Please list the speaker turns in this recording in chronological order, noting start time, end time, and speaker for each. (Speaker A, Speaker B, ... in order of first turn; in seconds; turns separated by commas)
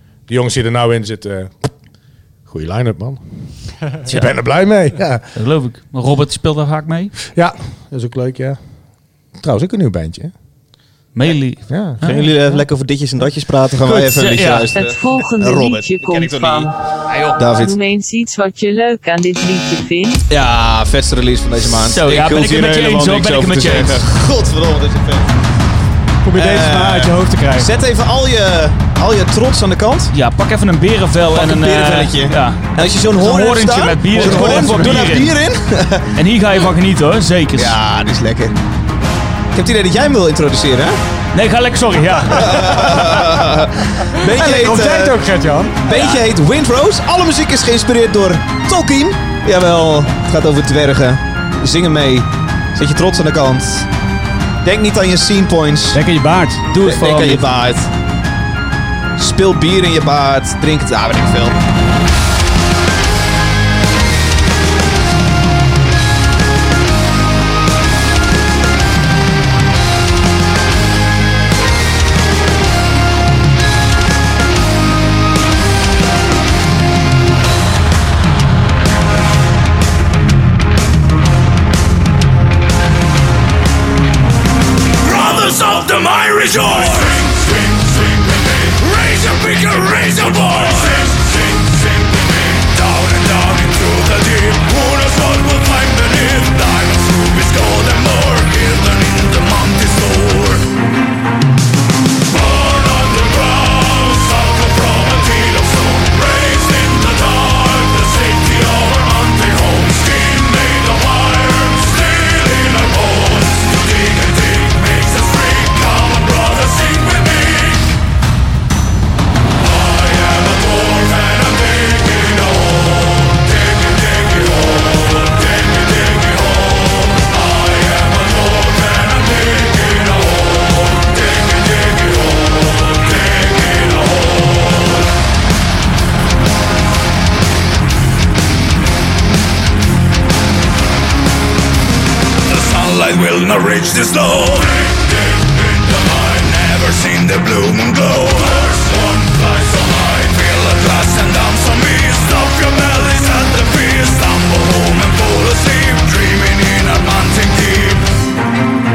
Speaker A: 0.3-1.7, Speaker A: 2.5-5.3, Speaker B: 4.1-4.4, Speaker B: 5.3-7.1, Speaker A: 7.2-8.6, Speaker A: 9.4-10.3, Speaker B: 11.1-12.4, Speaker A: 11.7-12.0, Speaker C: 12.0-16.7, Speaker B: 13.8-14.7, Speaker D: 14.7-16.7, Speaker B: 17.1-17.5, Speaker C: 17.4-17.8, Speaker D: 17.5-20.3, Speaker C: 20.3-25.4, Speaker B: 21.7-24.1, Speaker E: 26.2-27.7, Speaker C: 26.3-30.1, Speaker B: 30.1-35.4, Speaker C: 31.3-36.1, Speaker E: 34.2-35.0, Speaker B: 36.1-37.8, Speaker C: 37.5-38.5, Speaker C: 39.5-41.0, Speaker B: 41.3-42.8, Speaker C: 42.3-45.2, Speaker E: 44.2-46.1, Speaker C: 45.8-53.9, Speaker C: 54.6-56.0, Speaker E: 55.9-56.6, Speaker B: 56.7-57.5, Speaker C: 56.8-57.9, Speaker C: 59.1-61.6, Speaker F: 85.0-91.7, Speaker F: 92.5-100.7, Speaker F: 102.3-117.8, Speaker F: 120.0-122.9, Speaker F: 123.7-124.3, Speaker F: 142.5-158.1